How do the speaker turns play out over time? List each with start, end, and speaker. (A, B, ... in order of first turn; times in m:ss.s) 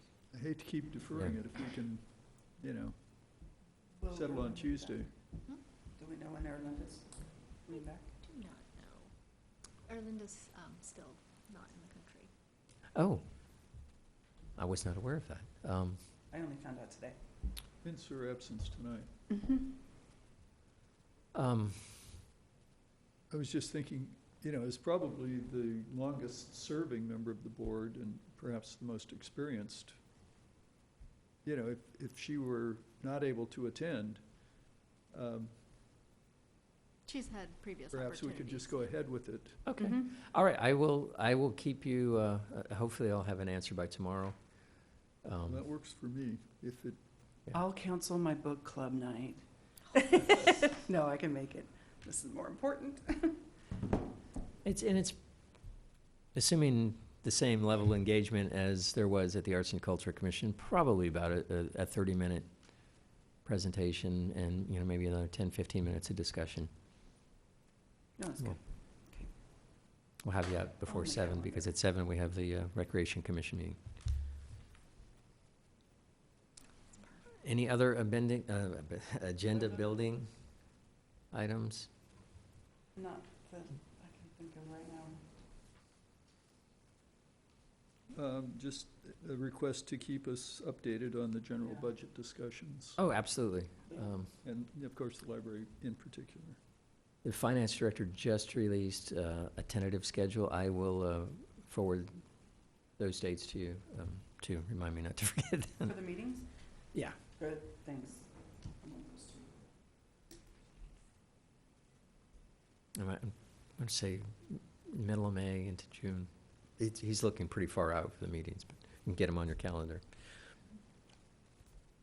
0:00.3-0:03.5 A
0:04.0-0:05.0 B
0:04.1-0:05.1 A
0:05.7-0:08.1 B
0:07.7-0:12.3 C
0:12.9-0:13.3 D
0:14.6-0:16.0 D
0:16.3-0:17.2 B
0:17.8-0:19.1 A
0:21.3-0:22.1 D
0:23.3-0:30.0 A
0:31.4-0:35.6 A
0:37.0-0:38.8 C
0:37.9-0:39.6 A
0:39.6-0:45.6 D
0:39.8-0:40.1 B
0:45.4-0:47.0 A
0:47.5-0:53.4 B
0:54.6-1:06.7 D
1:08.2-1:09.3 B
1:10.2-1:13.8 D
1:10.8-1:11.7 B
1:17.4-1:20.8 D
1:21.3-1:21.9 D
1:22.9-1:25.2 B
1:28.1-1:33.0 A
1:33.0-1:34.3 D
1:34.4-1:36.6 A
1:37.2-1:45.9 D
1:45.8-1:49.5 B
1:46.9-1:47.2 D
1:53.0-2:00.0 D